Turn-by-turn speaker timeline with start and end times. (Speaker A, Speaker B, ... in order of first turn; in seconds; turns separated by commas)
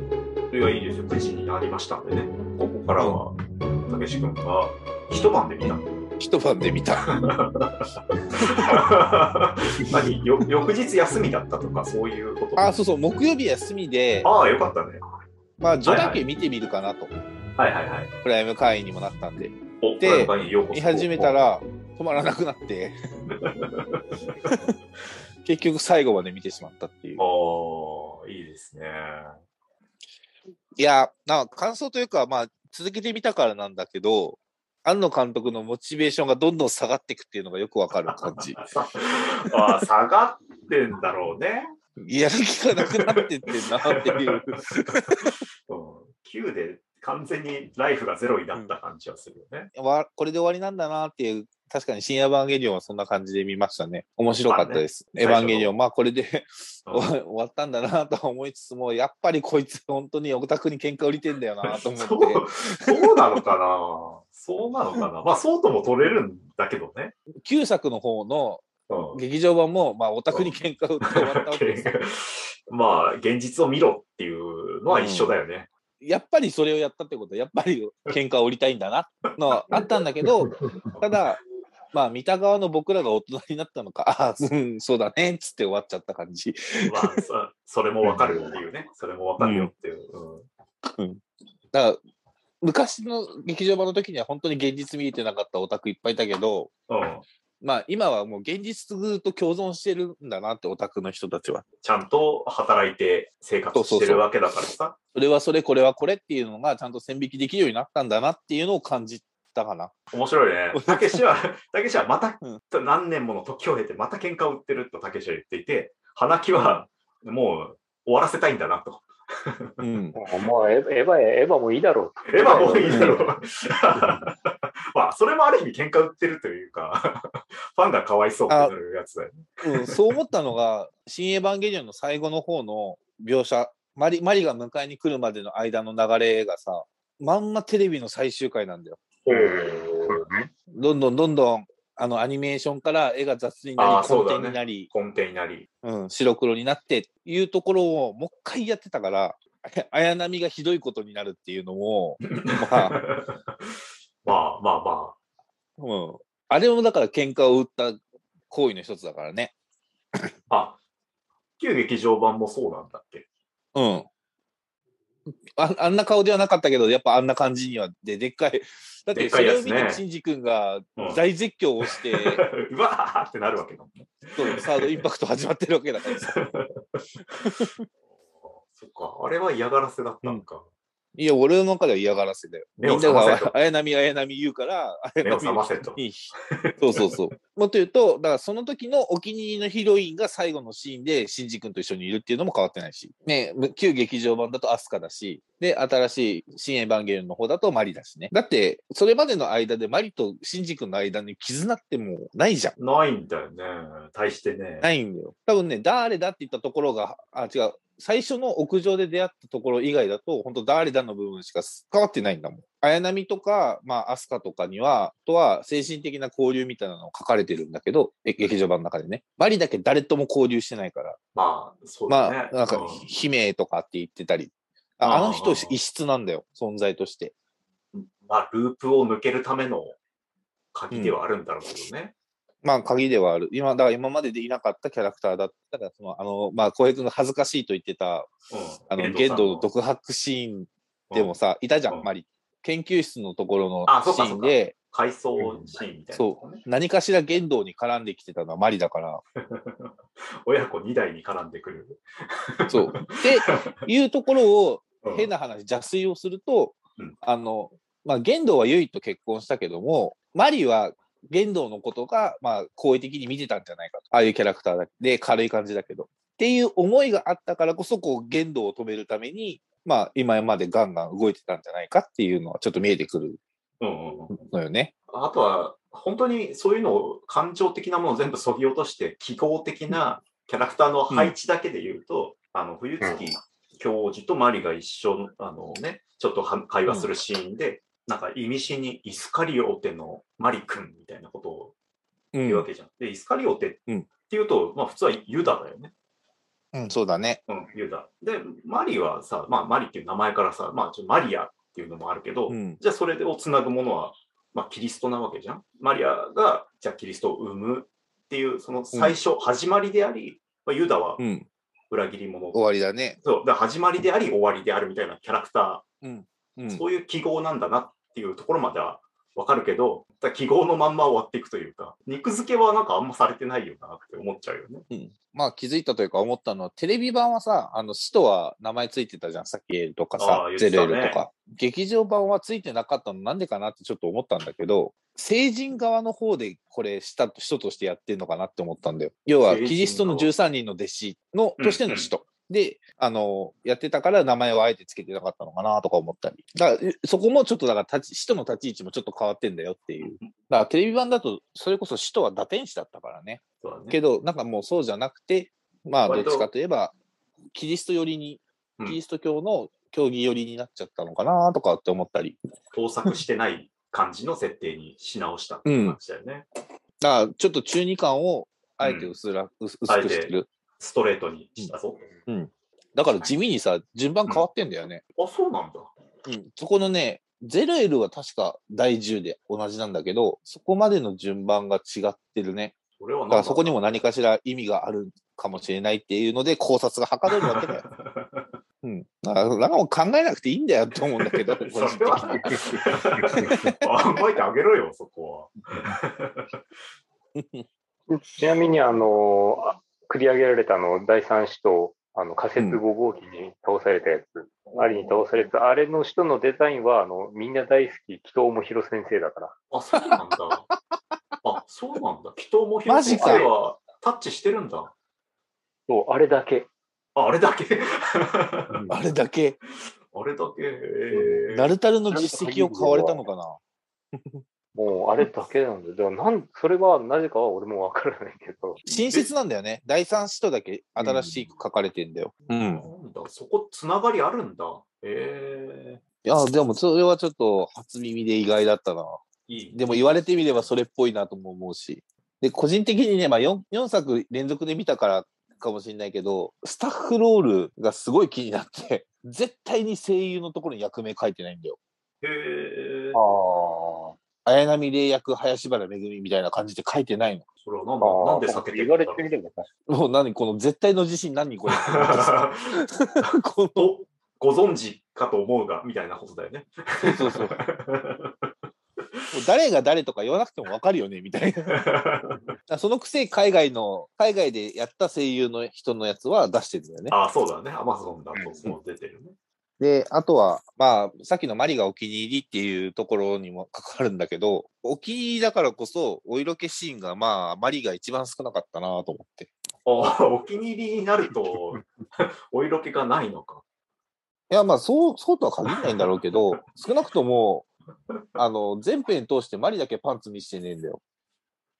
Speaker A: 0.5-6.1, Speaker B: 3.0-3.2, Speaker B: 6.2-7.1, Speaker A: 7.1-12.7, Speaker B: 8.4-8.8, Speaker B: 12.6-14.3, Speaker A: 14.2-15.0, Speaker B: 15.6-17.1, Speaker A: 15.8-16.2, Speaker A: 17.6-18.1, Speaker B: 18.2-22.9, Speaker A: 19.8-21.4, Speaker A: 23.3-24.3, Speaker B: 24.4-24.7, Speaker B: 25.4-27.2, Speaker A: 27.2-29.3, Speaker B: 30.8-38.6, Speaker A: 38.1-41.6, Speaker B: 39.5-39.8, Speaker B: 42.0-45.4, Speaker A: 42.8-43.2, Speaker A: 44.0-44.3, Speaker A: 45.7-49.7, Speaker B: 49.7-63.4, Speaker A: 54.5-55.7, Speaker A: 61.7-67.1, Speaker B: 67.4-72.0, Speaker A: 68.9-69.2, Speaker A: 71.2-75.7, Speaker B: 74.9-75.4, Speaker B: 76.0-81.4, Speaker A: 80.2-80.6, Speaker B: 81.9-87.2, Speaker A: 86.8-90.5, Speaker B: 88.0-88.5, Speaker B: 89.4-89.7, Speaker B: 90.9-91.2, Speaker B: 91.7-92.0, Speaker B: 92.6-96.7, Speaker A: 96.9-97.2, Speaker B: 97.6-101.7, Speaker A: 101.8-105.0, Speaker B: 103.7-104.2, Speaker B: 105.1-109.9, Speaker A: 110.1-119.7, Speaker B: 110.7-111.2, Speaker B: 116.5-116.8, Speaker B: 119.8-120.2, Speaker C: 120.1-123.3, Speaker A: 122.3-129.9, Speaker B: 122.5-123.2, Speaker B: 128.5-128.7, Speaker B: 129.6-139.0, Speaker A: 139.2-140.2, Speaker C: 139.3-140.5, Speaker B: 140.7-144.9, Speaker A: 143.8-145.7, Speaker B: 145.8-153.0, Speaker A: 152.2-153.6, Speaker A: 154.2-155.1, Speaker B: 155.8-158.0, Speaker B: 158.5-159.5, Speaker A: 160.5-160.8, Speaker A: 161.6-163.2, Speaker B: 163.7-164.1, Speaker B: 165.6-172.4, Speaker A: 169.1-170.0, Speaker A: 171.0-171.2, Speaker A: 171.9-175.0, Speaker B: 174.3-176.4, Speaker A: 176.1-177.0, Speaker B: 177.4-177.8, Speaker A: 178.4-180.6, Speaker B: 181.2-202.7, Speaker A: 182.8-183.5, Speaker A: 185.2-186.0, Speaker A: 186.6-187.1, Speaker A: 202.8-204.9, Speaker B: 204.8-221.2, Speaker A: 221.3-223.0, Speaker B: 222.1-227.3, Speaker A: 225.0-225.8, Speaker A: 227.9-230.0, Speaker A: 230.7-232.1, Speaker B: 230.9-231.2, Speaker B: 232.6-238.3, Speaker A: 238.5-239.7, Speaker B: 238.9-244.7, Speaker A: 241.1-241.4, Speaker A: 243.8-246.6, Speaker B: 246.1-249.2, Speaker A: 249.4-249.9, Speaker A: 250.4-252.0, Speaker A: 252.6-253.7, Speaker B: 252.7-273.4, Speaker A: 255.0-255.3, Speaker A: 273.8-274.4, Speaker B: 274.3-274.9, Speaker A: 275.1-291.7, Speaker C: 283.0-283.3, Speaker B: 292.3-292.7, Speaker A: 292.4-295.9, Speaker B: 296.7-297.4, Speaker A: 297.5-311.2, Speaker B: 302.5-302.8, Speaker B: 308.9-309.2, Speaker B: 311.2-311.5, Speaker A: 311.9-312.6, Speaker B: 312.5-313.2, Speaker A: 313.2-315.8, Speaker B: 316.0-316.8, Speaker A: 316.7-324.8, Speaker B: 324.9-356.9, Speaker A: 330.2-331.2, Speaker A: 339.4-340.3, Speaker A: 341.6-342.1, Speaker A: 350.0-350.3, Speaker A: 353.6-354.0, Speaker A: 356.0-356.5, Speaker B: 357.5-362.4, Speaker A: 362.7-366.4, Speaker B: 365.6-366.0, Speaker B: 367.0-370.5, Speaker A: 368.8-369.1, Speaker A: 369.9-372.1, Speaker B: 372.3-375.0, Speaker A: 375.1-375.9, Speaker B: 376.2-382.7, Speaker A: 383.0-384.1, Speaker B: 383.3-387.8, Speaker A: 387.3-388.5, Speaker B: 388.8-392.6, Speaker A: 391.2-396.5, Speaker C: 392.5-393.6, Speaker B: 393.4-393.7, Speaker B: 397.4-397.6, Speaker C: 398.1-409.5, Speaker A: 404.6-405.5, Speaker A: 409.7-410.7, Speaker A: 411.4-414.9, Speaker B: 412.9-413.5, Speaker C: 413.1-413.5, Speaker C: 415.9-416.7, Speaker A: 417.1-418.8, Speaker B: 418.9-419.6, Speaker A: 420.1-421.7, Speaker C: 421.1-421.4, Speaker B: 421.5-423.6, Speaker C: 422.1-423.2, Speaker B: 424.1-424.4, Speaker C: 424.7-428.8, Speaker A: 428.8-429.3, Speaker B: 428.9-432.9, Speaker A: 431.0-431.5, Speaker A: 432.6-436.0, Speaker B: 436.2-439.2, Speaker A: 439.5-440.7, Speaker B: 439.7-451.8, Speaker A: 452.2-453.2, Speaker C: 453.1-454.1, Speaker B: 454.4-457.4, Speaker A: 457.6-459.2, Speaker C: 458.0-459.7, Speaker B: 459.9-463.9, Speaker A: 461.7-462.6, Speaker A: 463.8-468.3, Speaker B: 467.0-467.6, Speaker B: 469.3-471.8, Speaker A: 471.7-472.4, Speaker B: 472.7-477.1, Speaker A: 477.1-479.3, Speaker C: 478.4-478.7, Speaker B: 479.8-489.5, Speaker A: 489.9-493.6, Speaker B: 494.5-497.7, Speaker A: 495.7-496.5, Speaker B: 498.4-501.0